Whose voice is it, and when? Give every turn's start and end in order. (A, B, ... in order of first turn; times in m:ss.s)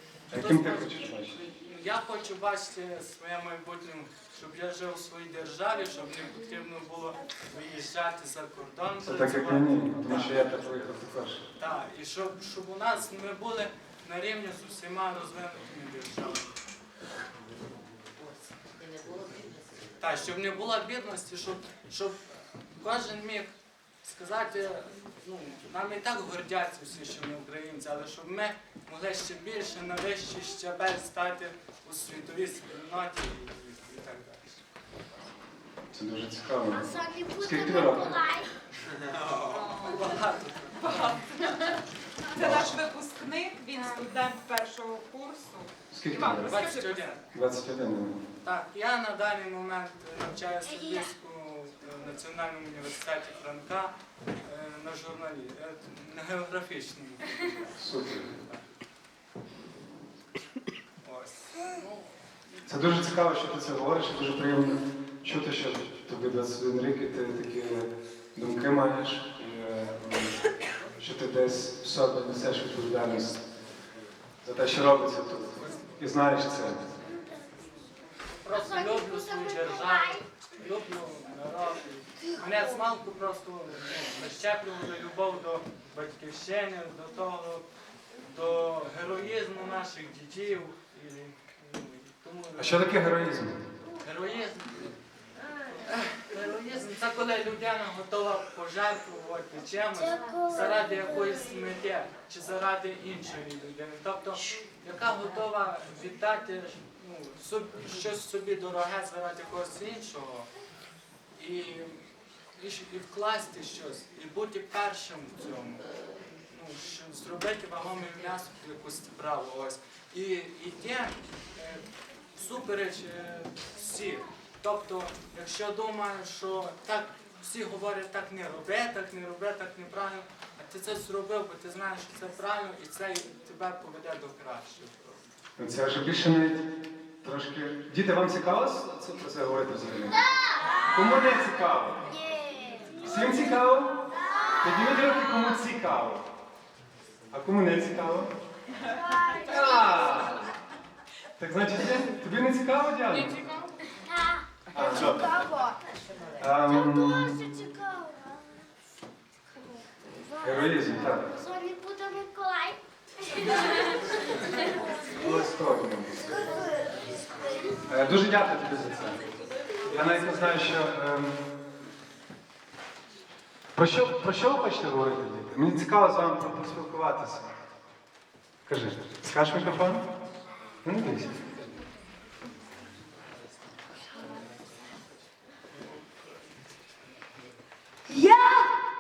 0:00.3-0:01.4 A
0:00.3-0:10.5 B
0:09.0-0:11.4 A
0:11.6-0:16.6 B
0:20.0-0:34.7 B
0:35.9-0:38.2 A
0:36.8-0:38.5 C
0:39.3-0:41.1 B
0:41.0-0:41.8 D
0:42.4-0:42.8 A
0:42.4-0:45.7 D
0:45.9-0:46.6 A
0:46.3-0:46.8 D
0:46.3-0:47.2 B
0:47.3-0:48.2 A
0:48.4-0:58.6 B
0:57.8-0:58.3 A
1:01.0-1:02.1 B
1:02.7-1:10.4 A
1:11.0-1:13.4 A
1:14.4-1:16.9 A
1:18.3-1:27.7 B
1:18.9-1:20.2 C
1:28.2-1:33.0 B
1:32.6-1:33.6 A
1:34.0-1:35.0 B
1:35.7-1:50.5 B
1:40.1-1:40.6 C
1:51.4-1:52.0 B
1:52.6-1:55.9 B
1:56.5-2:15.2 B
2:15.6-2:16.7 A
2:17.2-2:20.2 A
2:20.4-2:20.8 C
2:20.9-2:22.1 A
2:22.2-2:23.0 C
2:23.0-2:24.0 A
2:24.3-2:24.6 C
2:24.6-2:26.2 A
2:27.3-2:28.3 A
2:29.0-2:30.0 C
2:29.4-2:30.5 A
2:31.4-2:33.4 A
2:33.9-2:35.8 C
2:34.7-2:35.3 A
2:36.4-2:37.4 A
2:36.7-2:38.6 C
2:40.4-2:41.3 A
2:41.3-2:44.0 C
2:45.1-2:46.4 A
2:46.6-2:47.8 C
2:47.9-2:49.2 A
2:49.8-2:51.4 A
2:53.8-2:57.5 A
2:58.7-3:00.0 A
3:00.8-3:01.4 A
3:08.1-3:08.7 C